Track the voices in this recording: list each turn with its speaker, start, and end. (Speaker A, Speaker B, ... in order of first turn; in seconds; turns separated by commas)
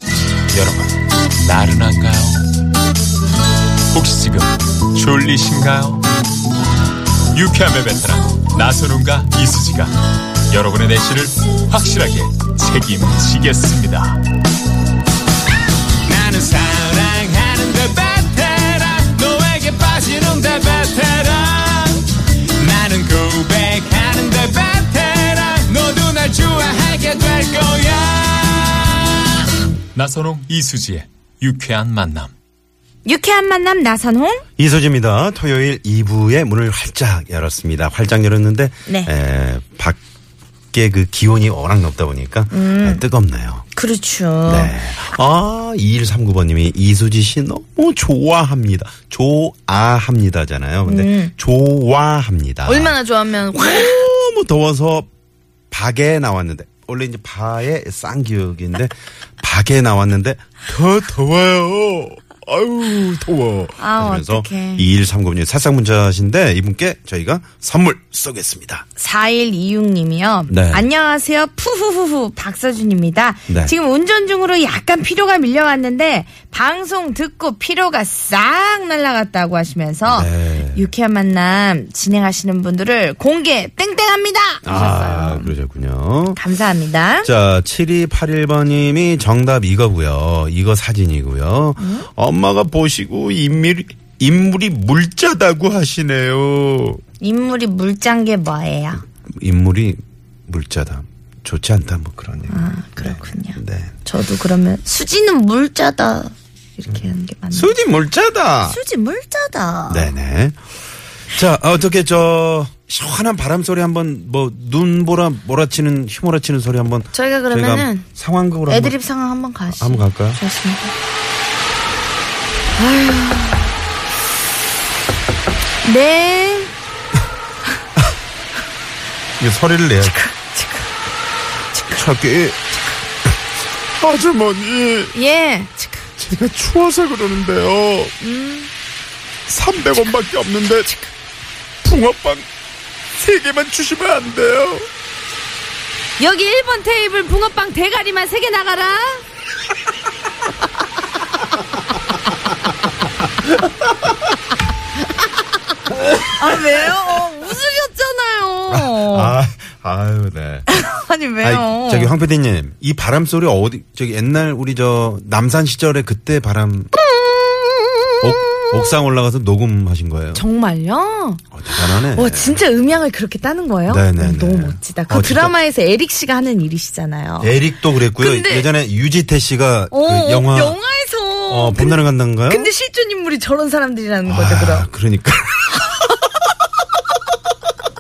Speaker A: 0.5-2.4, Speaker A: 3.9-6.0, Speaker A: 7.3-9.9, Speaker A: 10.5-14.2, Speaker A: 16.1-22.0, Speaker A: 22.6-29.1, Speaker A: 29.9-32.3, Speaker B: 33.0-34.4, Speaker C: 34.6-40.0, Speaker B: 38.9-39.1, Speaker C: 40.7-43.6, Speaker B: 42.5-43.0, Speaker B: 43.7-44.8, Speaker C: 44.5-53.0, Speaker B: 50.9-51.3, Speaker B: 52.7-54.0, Speaker C: 53.5-55.1, Speaker C: 55.7-68.8, Speaker B: 63.8-64.9, Speaker B: 69.0-85.6, Speaker C: 70.5-70.9, Speaker C: 73.5-73.7, Speaker C: 80.1-80.9, Speaker C: 84.6-86.4, Speaker B: 86.4-87.3, Speaker C: 87.2-97.0, Speaker B: 91.8-92.1, Speaker B: 97.2-99.0, Speaker C: 99.4-103.9, Speaker B: 102.5-107.7, Speaker C: 107.5-108.8, Speaker B: 108.7-110.1, Speaker C: 109.9-110.6, Speaker C: 111.3-119.0, Speaker B: 117.1-118.1, Speaker B: 118.7-120.9, Speaker C: 119.7-120.4, Speaker B: 122.8-123.7, Speaker B: 125.8-126.7, Speaker C: 129.4-130.2, Speaker B: 130.0-130.9, Speaker B: 131.7-132.0, Speaker C: 131.9-132.6, Speaker C: 134.0-135.2, Speaker B: 135.1-136.1, Speaker C: 136.2-138.1, Speaker B: 138.2-138.7, Speaker C: 139.5-140.9, Speaker C: 141.8-142.5, Speaker C: 143.2-144.9, Speaker B: 146.2-149.2, Speaker B: 156.2-159.4, Speaker C: 158.7-160.7, Speaker B: 160.7-162.1, Speaker C: 161.4-166.9, Speaker B: 166.9-168.9, Speaker C: 168.2-170.4, Speaker B: 170.3-177.6, Speaker C: 171.5-172.6, Speaker C: 173.9-175.6, Speaker C: 177.4-180.8, Speaker B: 178.2-178.7, Speaker B: 179.9-184.9, Speaker C: 181.5-182.7, Speaker C: 184.2-185.8